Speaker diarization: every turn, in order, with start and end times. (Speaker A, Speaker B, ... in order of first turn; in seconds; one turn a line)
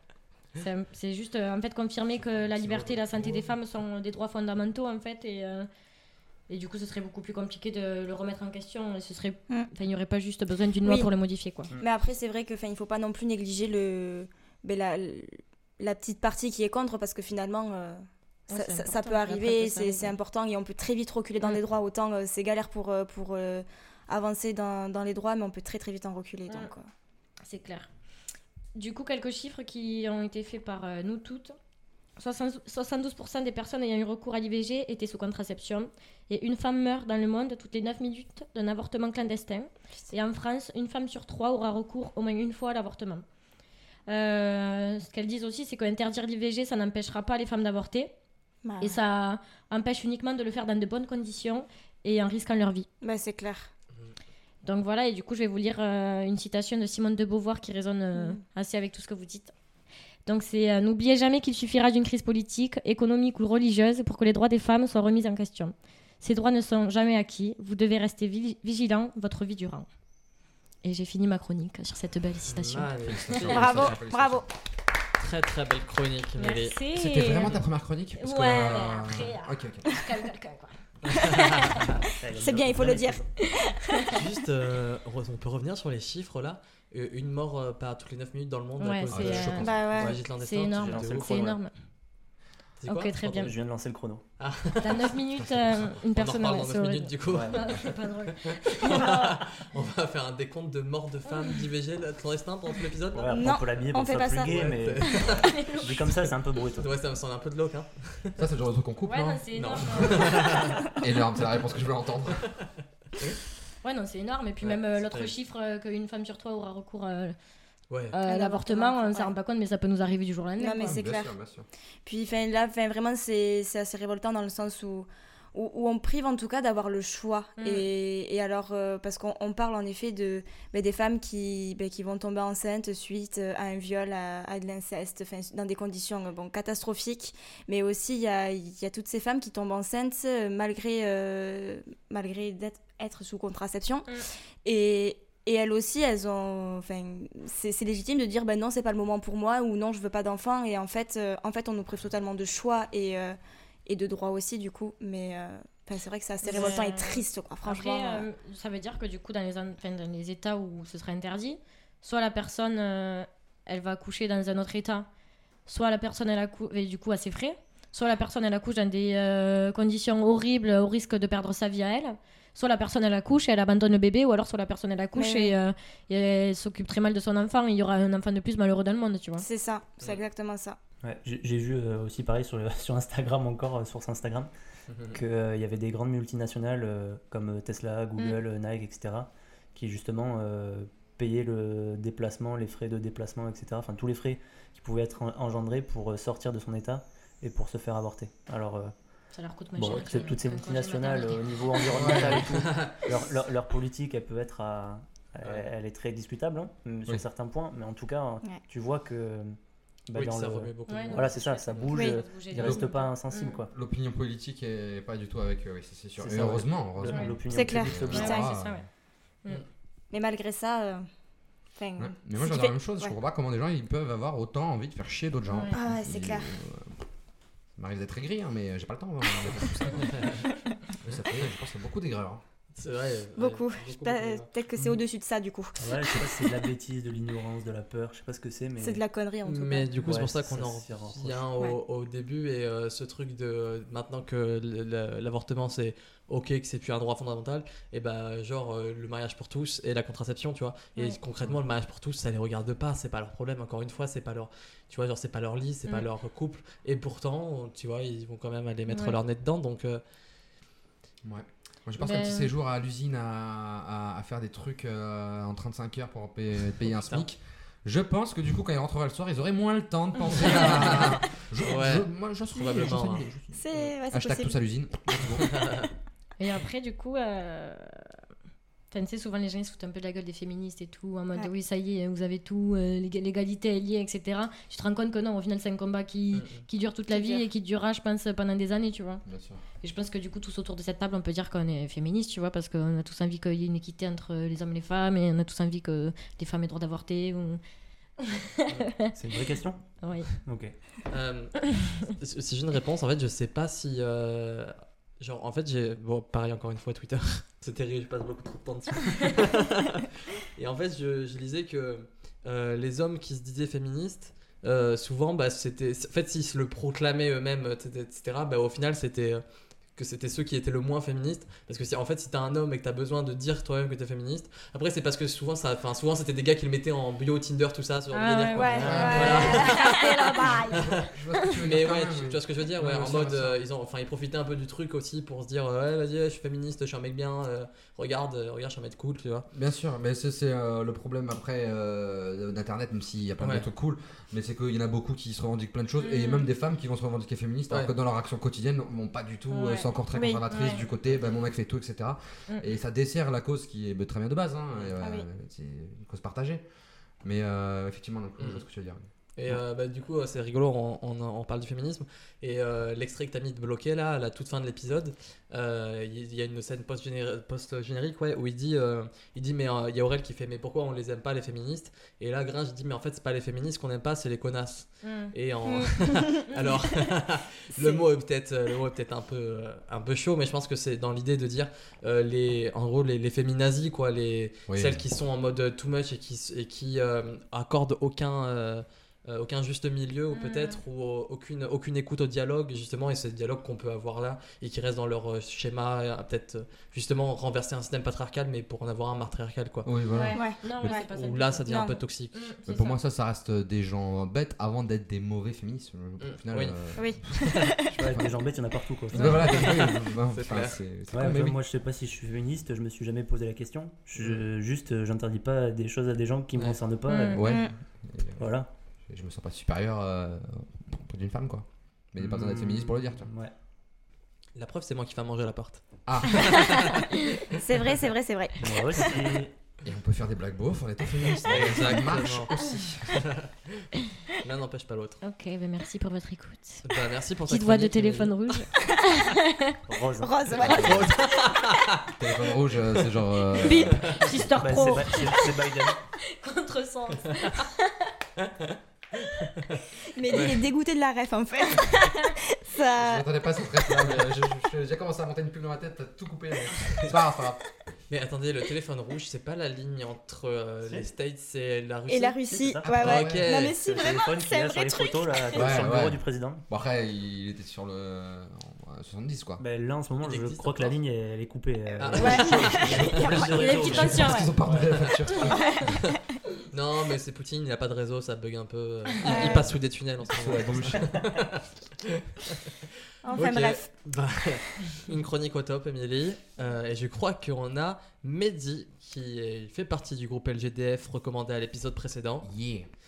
Speaker A: 0.6-5.7
Speaker B: 2.3-3.5
Speaker A: 6.5-11.7
Speaker C: 10.8-11.1
Speaker C: 11.8-26.9
Speaker A: 18.5-20.1
Speaker A: 27.4-27.9
Speaker A: 28.7-31.5
Speaker A: 32.2-43.2
Speaker A: 44.1-48.1
Speaker C: 48.6-49.0
Speaker A: 48.8-52.9
Speaker C: 53.0-53.7
Speaker A: 54.6-59.5
Speaker C: 58.1-58.4
Speaker A: 60.2-69.9
Speaker A: 70.8-73.4
Speaker D: 72.5-73.9
Speaker B: 73.0-74.5
Speaker C: 73.5-74.5
Speaker D: 75.2-76.8
Speaker A: 76.4-77.5
Speaker B: 76.9-79.9
Speaker A: 78.2-80.7
Speaker D: 81.1-81.9
Speaker C: 81.2-81.5
Speaker C: 82.1-84.1
Speaker E: 82.2-83.3
Speaker A: 83.9-84.2
Speaker D: 84.1-91.5
Speaker A: 88.8-89.7
Speaker B: 89.1-89.9
Speaker C: 89.6-90.1
Speaker E: 89.9-91.6
Speaker A: 90.4-91.7
Speaker D: 92.8-93.5
Speaker A: 92.9-93.5
Speaker E: 93.3-94.2
Speaker D: 94.4-95.1
Speaker A: 94.8-99.4
Speaker B: 95.3-96.0
Speaker D: 96.1-103.6
Speaker E: 97.3-97.6
Speaker A: 101.3-101.6
Speaker E: 103.1-106.9
Speaker C: 103.3-105.2
Speaker D: 104.4-105.5
Speaker A: 105.5-106.0
Speaker D: 106.8-108.4
Speaker B: 108.4-112.5
Speaker A: 109.0-110.8
Speaker D: 109.5-110.8
Speaker A: 113.8-117.3
Speaker D: 115.0-115.3
Speaker D: 117.9-118.2
Speaker A: 118.1-121.0
Speaker C: 118.2-119.3
Speaker C: 120.6-121.3
Speaker B: 120.8-121.7
Speaker C: 122.0-144.1
Speaker A: 127.6-127.8
Speaker C: 144.6-158.3
Speaker A: 156.4-165.1
Speaker A: 165.7-179.4
Speaker C: 175.1-175.5
Speaker C: 179.4-180.8
Speaker E: 181.0-184.5
Speaker D: 184.9-185.2
Speaker E: 185.1-198.9
Speaker A: 199.3-201.5
Speaker E: 199.8-213.7
Speaker B: 201.9-202.5
Speaker D: 202.1-202.9
Speaker D: 205.4-205.7
Speaker D: 210.1-211.9
Speaker A: 210.9-213.6
Speaker C: 211.9-212.2
Speaker B: 212.6-212.8
Speaker B: 213.7-218.9
Speaker E: 216.2-218.4
Speaker A: 217.1-217.4
Speaker C: 217.5-218.5
Speaker A: 218.1-218.8
Speaker C: 220.1-221.1
Speaker C: 221.8-223.1
Speaker B: 222.0-227.0
Speaker A: 225.5-225.7
Speaker C: 225.7-226.5
Speaker B: 227.8-230.3
Speaker D: 230.1-230.4
Speaker B: 231.0-232.4
Speaker D: 232.8-234.5
Speaker C: 233.3-235.8
Speaker E: 235.8-239.0
Speaker C: 238.8-240.0
Speaker D: 239.4-260.0
Speaker E: 239.9-241.5
Speaker A: 258.9-259.2
Speaker B: 261.2-275.6
Speaker A: 262.0-262.5
Speaker D: 266.9-267.2
Speaker D: 270.3-273.9
Speaker C: 273.5-274.6
Speaker D: 275.4-275.9
Speaker A: 276.4-278.1
Speaker A: 278.9-289.2
Speaker D: 286.3-286.6
Speaker C: 287.1-287.4
Speaker B: 289.2-289.6
Speaker A: 289.8-297.6
Speaker A: 298.2-299.1
Speaker E: 299.1-300.8
Speaker A: 300.0-300.3
Speaker D: 301.1-319.4
Speaker D: 319.9-331.1
Speaker A: 328.1-330.6
Speaker C: 328.5-330.8
Speaker E: 328.7-329.3
Speaker B: 328.8-329.6
Speaker B: 330.6-333.6
Speaker D: 331.6-339.5
Speaker B: 339.5-356.6
Speaker D: 343.4-343.7
Speaker A: 346.0-346.5
Speaker A: 349.5-349.9
Speaker C: 350.1-350.4
Speaker A: 350.5-350.8
Speaker C: 355.0-355.2
Speaker B: 357.2-359.6
Speaker D: 358.4-358.6
Speaker D: 359.4-399.9
Speaker A: 375.0-375.3
Speaker C: 375.6-376.3
Speaker C: 377.7-378.0
Speaker B: 384.7-385.0
Speaker A: 390.3-390.8
Speaker B: 399.8-400.5
Speaker A: 400.1-402.9
Speaker C: 400.3-401.1
Speaker D: 400.9-402.5
Speaker C: 401.6-402.0
Speaker B: 402.6-408.3
Speaker D: 406.2-406.8
Speaker C: 406.9-407.9
Speaker D: 407.4-407.7
Speaker E: 407.9-409.7
Speaker B: 409.1-411.6
Speaker D: 409.2-410.8
Speaker E: 411.1-417.5
Speaker A: 417.1-417.4
Speaker B: 417.3-418.5
Speaker C: 417.4-417.7
Speaker E: 418.4-418.7
Speaker B: 419.1-423.3
Speaker E: 422.2-423.5
Speaker D: 424.6-427.5
Speaker B: 426.1-426.7
Speaker A: 427.1-427.4
Speaker C: 427.4-429.2
Speaker E: 428.6-429.5
Speaker B: 429.8-433.2
Speaker D: 431.4-435.2
Speaker A: 435.2-436.8
Speaker D: 436.8-438.5
Speaker A: 437.5-439.8
Speaker E: 439.9-441.1
Speaker C: 440.2-441.1
Speaker D: 440.6-442.1
Speaker B: 442.2-444.2
Speaker A: 443.6-445.5
Speaker D: 443.7-444.3
Speaker E: 444.6-446.0
Speaker A: 446.2-448.1
Speaker D: 447.3-447.6
Speaker D: 448.4-450.6
Speaker C: 450.1-453.2
Speaker A: 451.9-452.3
Speaker B: 452.9-457.6
Speaker D: 454.0-454.3
Speaker D: 458.1-463.8
Speaker E: 460.8-461.1
Speaker C: 462.1-465.8
Speaker E: 462.5-463.2
Speaker B: 462.8-463.5
Speaker E: 463.7-466.6
Speaker B: 465.5-469.6
Speaker E: 469.6-475.1
Speaker D: 470.2-471.0
Speaker D: 472.0-473.5
Speaker C: 472.1-473.7
Speaker B: 472.7-476.0
Speaker A: 473.5-474.5
Speaker D: 474.8-475.2
Speaker D: 476.7-492.5
Speaker C: 479.2-479.7
Speaker B: 480.3-481.2
Speaker E: 480.8-481.2
Speaker C: 483.2-483.9
Speaker B: 492.4-492.9